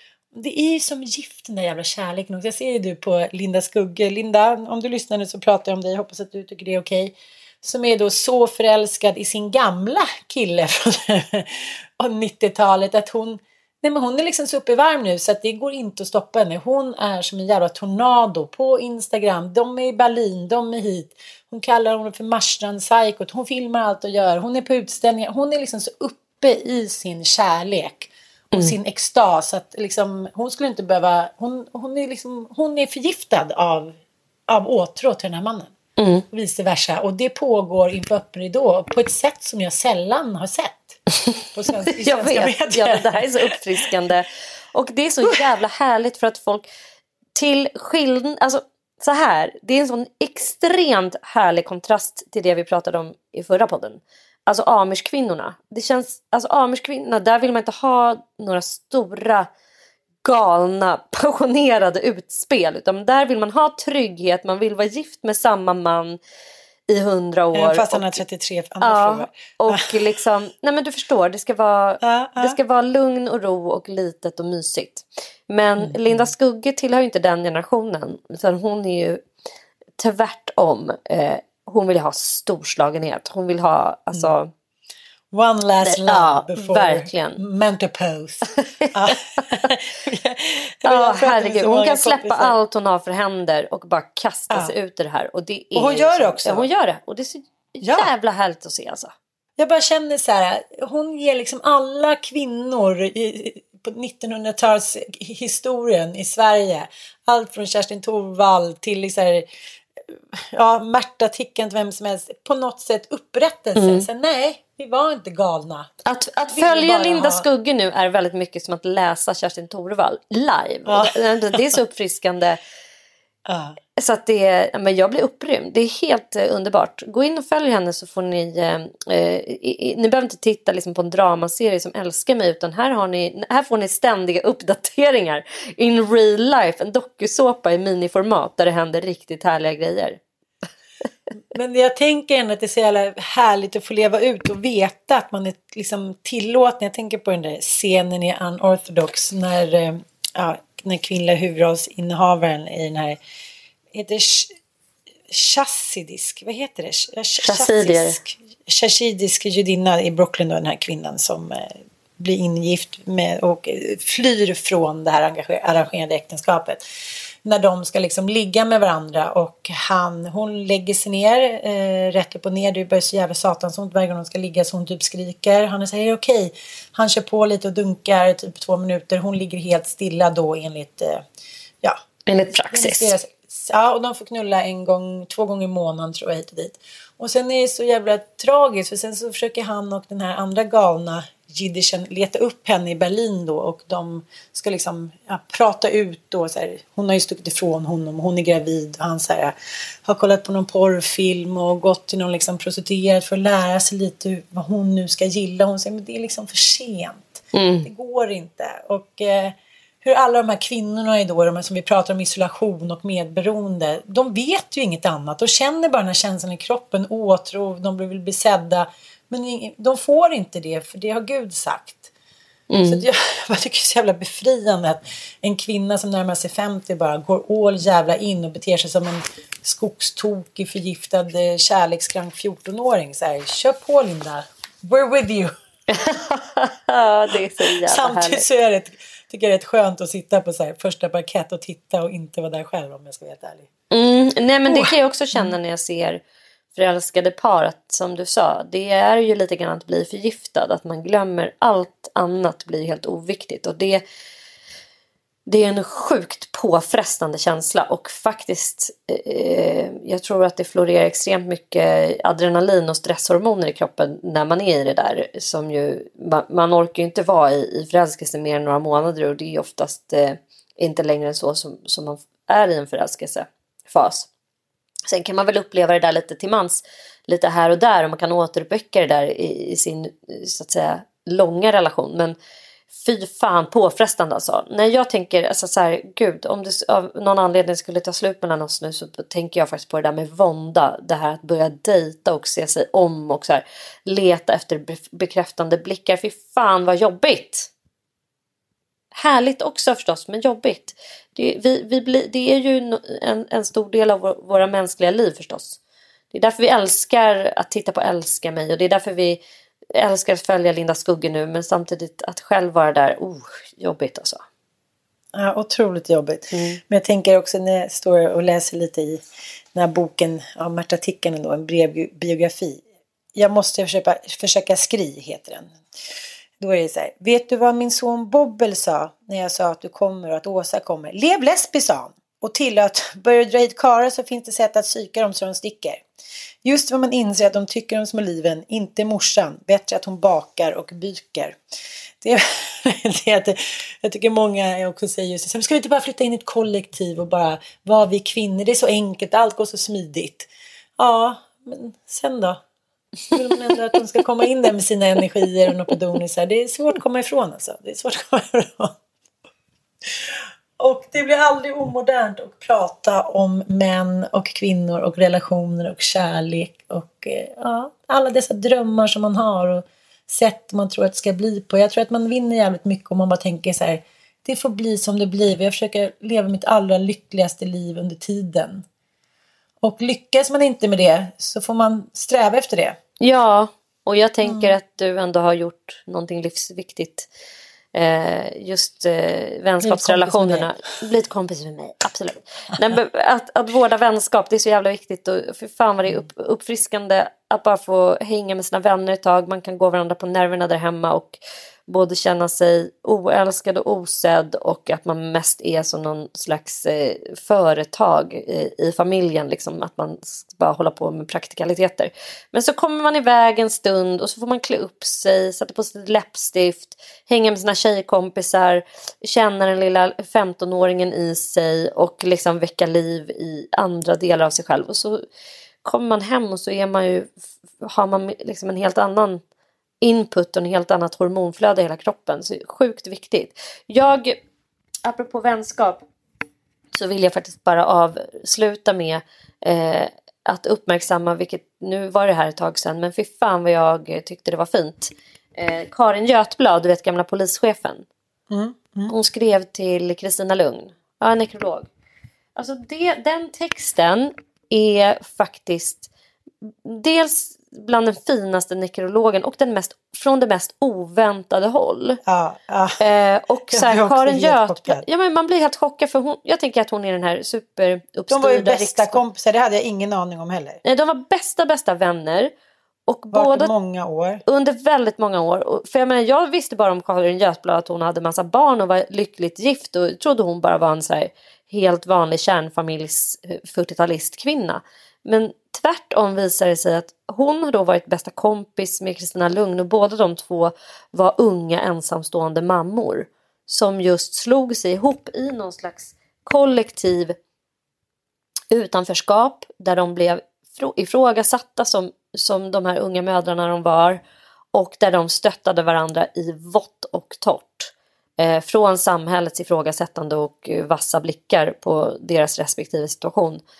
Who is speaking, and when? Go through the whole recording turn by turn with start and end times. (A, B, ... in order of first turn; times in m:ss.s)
0:00.3-0:34.0 A
0:34.5-0:35.7 A
0:36.0-0:36.2 B
0:36.3-0:41.0 A
0:41.5-0:43.8 A
0:42.0-0:46.6 B
0:47.4-0:59.5 B
1:00.2-1:06.2 B
1:06.9-1:08.2 B
1:07.5-1:09.9 A
1:08.8-1:19.2 B
1:12.0-1:12.6 A
1:15.8-1:16.3 A
1:20.0-1:24.5 B
1:25.3-1:32.6 A
1:25.8-1:27.4 B
1:30.8-1:39.1 B
1:34.5-1:34.7 A
1:35.7-1:36.7 A
1:37.8-1:38.1 A
1:39.6-1:49.5 A
1:50.1-1:55.9 A
1:53.8-1:54.1 B
1:56.0-2:02.6 B
1:56.5-1:57.4 A
2:00.9-2:01.6 A
2:03.4-2:03.8 A
2:04.0-2:20.2 B
2:21.5-2:33.2 A
2:33.9-2:34.5 A
2:35.3-2:46.8 A
2:37.4-2:38.2 B
2:47.4-3:01.2 A
3:02.3-3:03.1 B
3:02.6-3:19.5 A
3:20.0-3:42.1 A
3:27.5-3:27.9 B
3:42.7-3:43.0 B
3:42.8-3:55.5 A
3:55.9-3:58.4 B
3:57.6-4:03.7 A
4:03.9-4:06.2 B
4:04.6-4:05.5 A
4:06.7-4:14.0 B
4:15.5-4:34.3 B
4:35.1-4:42.4 B
4:42.9-4:57.7 B
4:59.1-5:05.8 B
5:06.3-5:09.4 B
5:09.9-5:14.4 B
5:15.3-5:19.2 A
5:16.5-5:16.8 B
5:19.7-5:22.8 A
5:23.3-5:25.7 A
5:26.6-5:36.0 A
5:36.6-5:41.6 A
5:42.2-5:52.6 A
5:53.3-5:59.0 A
6:00.1-6:18.8 A
6:19.8-6:23.0 A
6:23.2-6:27.3 B
6:24.4-6:24.7 A
6:27.9-7:05.2 B
6:29.8-6:30.7 A
7:05.8-7:09.4 B
7:10.0-7:14.4 B
7:15.0-7:16.0 B
7:16.9-7:28.0 B
7:28.5-7:29.1 A
7:29.1-7:31.9 B
7:32.6-7:36.1 B
7:36.8-7:42.2 B
7:42.2-7:43.0 A
7:43.0-7:49.2 B
7:43.7-7:45.0 A
7:48.3-7:50.8 A
7:50.8-7:52.5 B
7:53.1-7:53.7 B
7:53.3-7:54.4 A
7:54.4-8:17.3 B
8:18.7-8:24.2 B
8:24.7-8:33.6 B